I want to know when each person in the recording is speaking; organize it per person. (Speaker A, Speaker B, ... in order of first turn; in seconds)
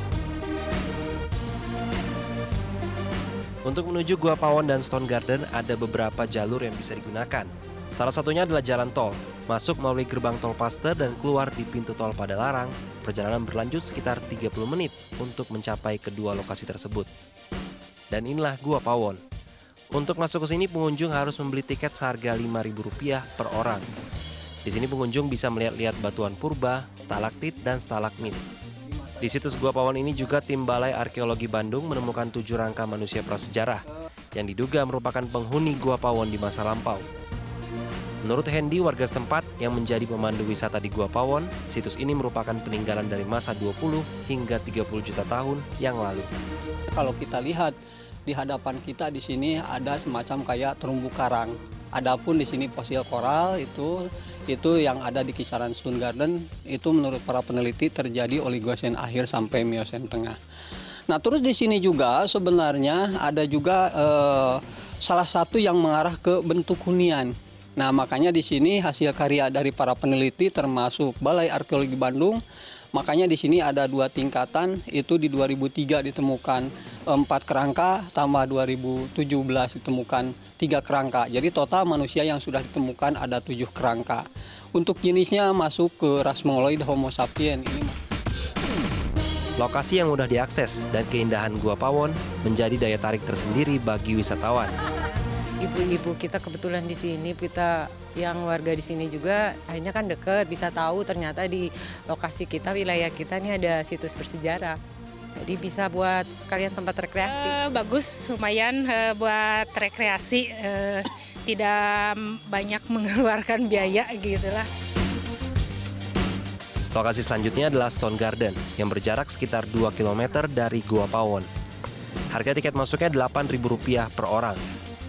Speaker A: 3.6-17.1, 18.1-19.2, 19.9-23.9, 24.6-28.4, 29.2-37.0, 38.2-46.3, 89.6-94.7, 116.9-121.5, 122.3-124.6
Speaker B: 46.9-60.4, 61.1-72.4, 72.9-88.0
Speaker C: 95.6-104.8, 105.4-107.6
Speaker D: 107.3-114.7